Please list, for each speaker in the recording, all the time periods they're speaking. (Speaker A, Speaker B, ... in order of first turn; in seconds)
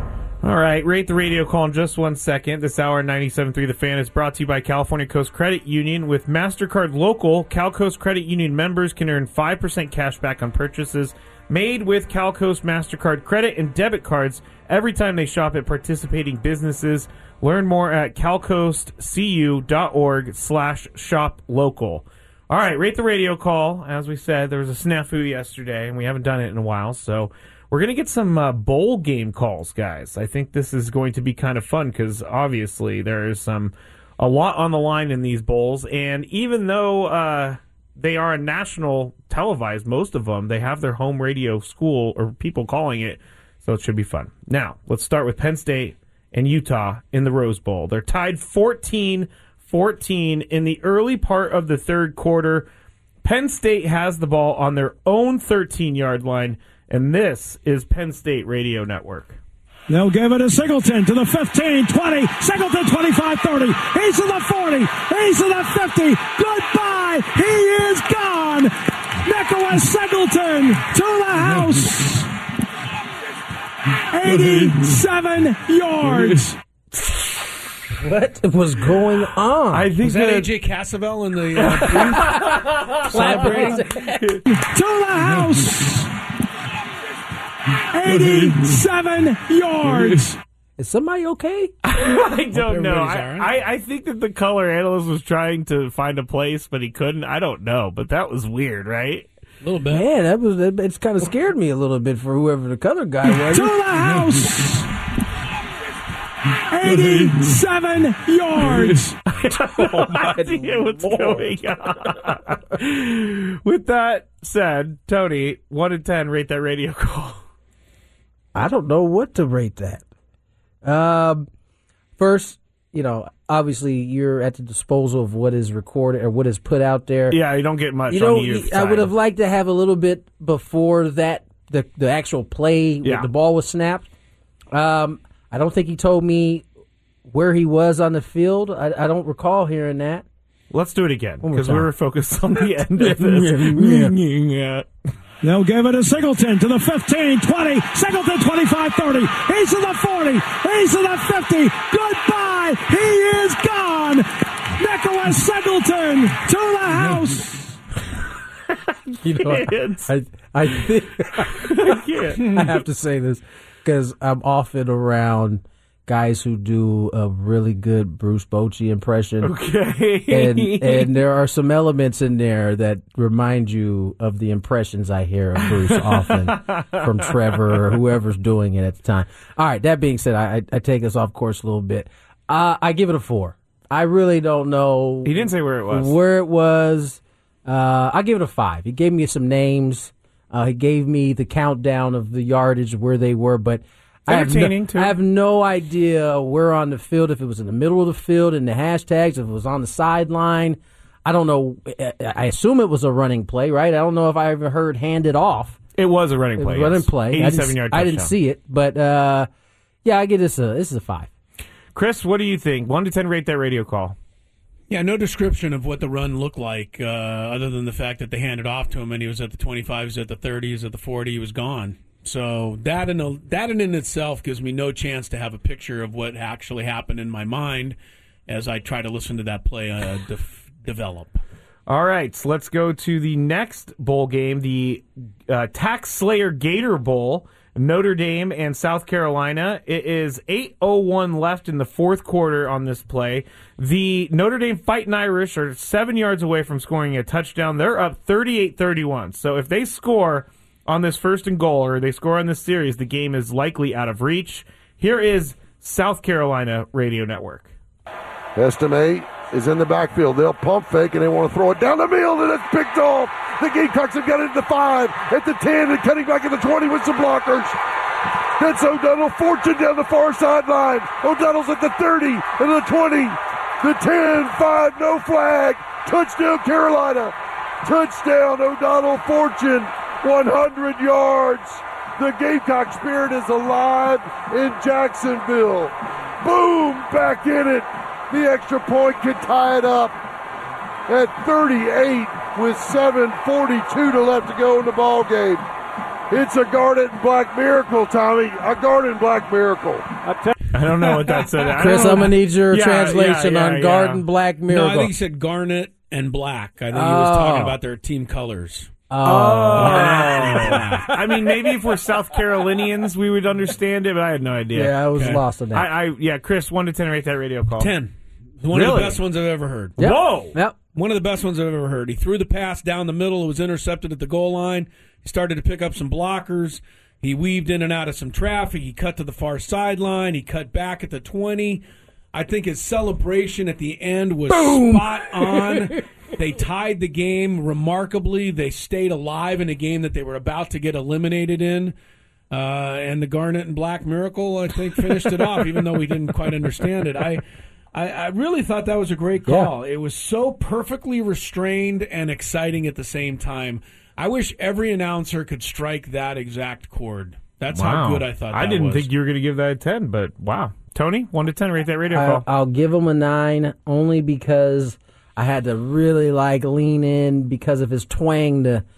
Speaker A: 0.4-52.7, 53.2-59.4, 79.7-80.5, 81.6-83.8, 91.8-99.3, 109.4-117.4, 127.3-129.1, 133.0-133.3, 140.7-144.9, 159.4-160.1, 161.5-162.7, 169.4-171.1, 175.7-177.8, 185.2-186.2, 194.3-195.2, 205.9-208.3, 211.9-214.2, 231.9-257.7, 300.7-304.2, 309.2-315.0, 315.7-317.9, 318.7-319.2, 320.0-320.6, 357.7-362.4
Speaker B: 59.9-72.3, 74.1-76.6, 84.4-86.1, 87.9-90.4, 103.3-104.9, 106.7-109.2, 145.4-157.8
Speaker C: 78.0-79.9, 82.3-84.4, 90.8-91.7, 99.9-103.7, 109.4-111.5, 118.5-120.0, 120.8-121.5, 122.2-127.4, 128.1-134.1, 134.7-136.6, 137.2-140.2, 141.4-141.9, 142.8-144.1, 159.2-169.5, 170.3-205.8, 206.6-209.5, 210.0-211.3, 301.8-305.1, 306.9-307.8, 309.1-311.6, 314.7-315.9, 320.0-320.8, 334.5-336.0, 349.4-349.7, 362.1-368.8
Speaker D: 80.0-82.5, 83.1-83.8, 92.5-93.5, 99.6-100.1, 214.9-227.9, 228.5-231.4, 304.7-308.9, 309.7-311.1, 315.1-315.4, 317.8-320.0, 320.9-341.9, 342.5-347.4, 347.9-359.1
Speaker E: 258.6-267.8, 268.6-290.1, 291.1-295.6, 296.3-300.1